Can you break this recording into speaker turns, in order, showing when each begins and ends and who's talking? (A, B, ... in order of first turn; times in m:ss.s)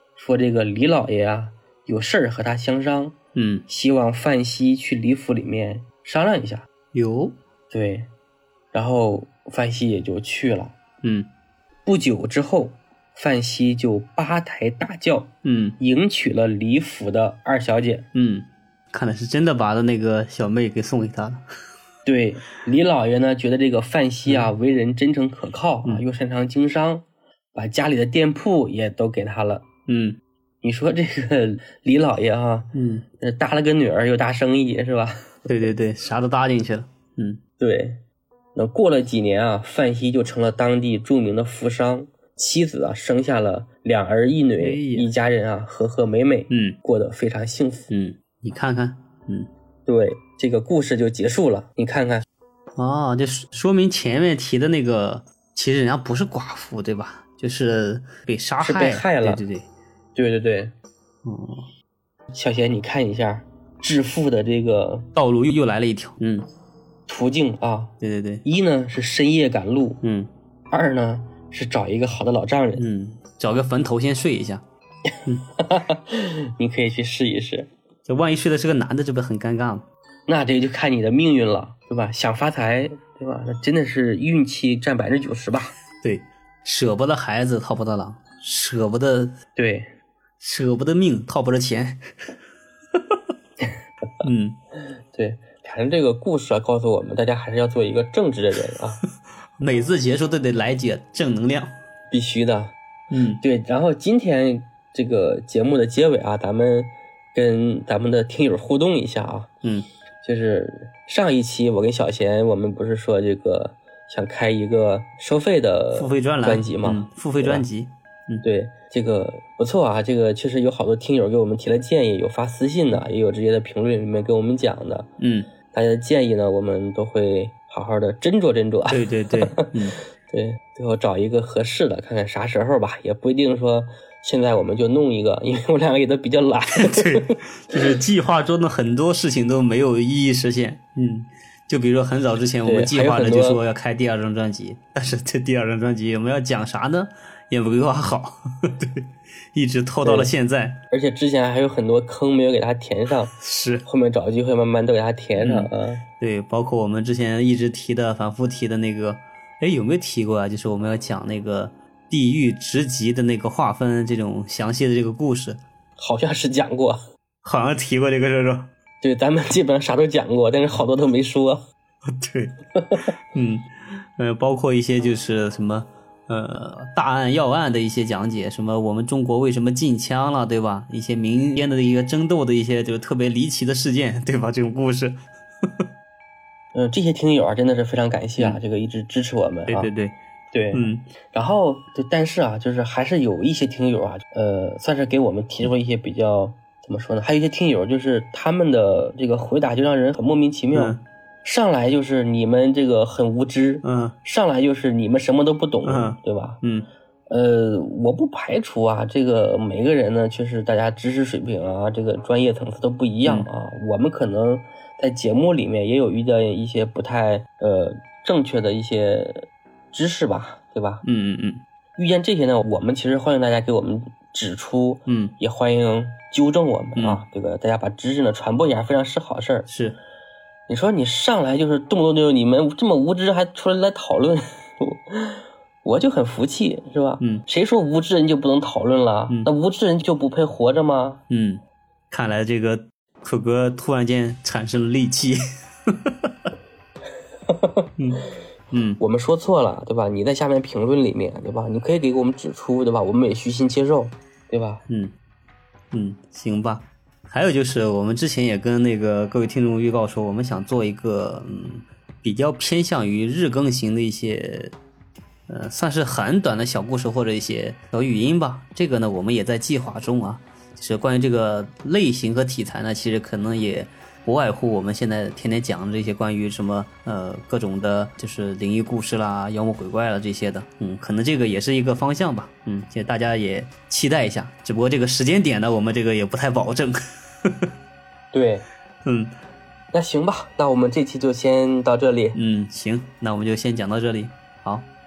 0:00.2-0:03.2 A
0:03.4-0:03.6 B
0:03.7-0:06.7 A
0:06.9-0:07.4 B
0:07.7-0:08.1 A
0:08.7-0:10.8 A
0:11.0-0:11.3 B
0:11.9-0:18.1 A
0:15.4-0:15.8 B
0:18.2-0:21.4 B
0:22.0-0:29.7 A
0:24.3-0:24.5 B
0:29.9-0:30.2 B
0:30.6-0:35.4 A
0:32.7-0:33.0 B
0:35.5-0:37.4 B
0:37.6-0:38.0 A
0:38.6-0:47.9 A
0:44.6-0:45.1 B
0:46.5-0:46.8 B
0:47.9-0:49.5 B
0:49.9-0:52.2 A
0:52.8-0:59.7 B
0:58.6-0:59.4 A
1:00.2-1:00.7 A
1:01.2-1:01.7 B
1:02.3-1:05.1 A
1:05.1-1:06.5 B
1:07.1-1:10.0 A
1:08.0-1:08.4 B
1:10.0-1:10.3 B
1:10.7-1:12.8 A
1:12.8-1:14.6 B
1:15.6-1:17.7 A
1:18.1-1:19.8 B
1:20.3-1:25.8 A
1:26.0-1:29.4 B
1:29.6-1:29.9 A
1:30.4-1:32.0 B
1:34.2-1:34.6 B
1:35.1-1:39.0 A
1:39.6-1:41.8 B
1:42.1-1:42.7 A
1:43.1-1:43.4 B
1:43.4-1:49.5 A
1:50.2-1:57.7 A
1:55.9-1:58.4 B
1:58.4-2:05.1 A
2:05.2-2:05.5 B
2:05.7-2:09.7 A
2:08.9-2:10.0 B
2:10.3-2:17.3 A
2:16.8-2:30.8 B
2:22.6-2:23.6 A
2:30.0-2:30.3 A
2:30.9-2:33.3 A
2:33.3-2:33.9 B
2:33.8-2:36.0 A
2:35.4-2:45.6 B
2:46.0-2:47.0 A
2:47.4-2:48.7 B
2:49.0-2:51.6 A
2:52.2-2:52.6 B
2:53.3-3:05.2 B
3:06.7-3:09.9 A
3:09.7-3:10.2 B
3:10.5-3:26.6 A
3:10.7-3:11.0 B
3:20.7-3:21.0 B
3:23.8-3:24.2 B
3:25.8-3:26.9 B
3:27.3-3:41.0 A
3:33.2-3:33.5 B
3:41.0-3:41.6 B
3:42.0-3:49.7 A
3:45.1-3:45.3 B
3:47.0-3:47.2 B
3:49.7-3:50.0 B
3:50.7-4:01.2 A
4:01.3-4:05.4 B
4:08.0-4:09.0 B
4:09.0-4:14.8 A
4:14.9-4:15.1 B
4:15.9-4:24.8 B
4:25.5-4:47.0 B
4:48.3-4:48.7 A
4:49.0-4:49.3 B
4:49.9-4:52.4 A
4:52.3-4:54.9 B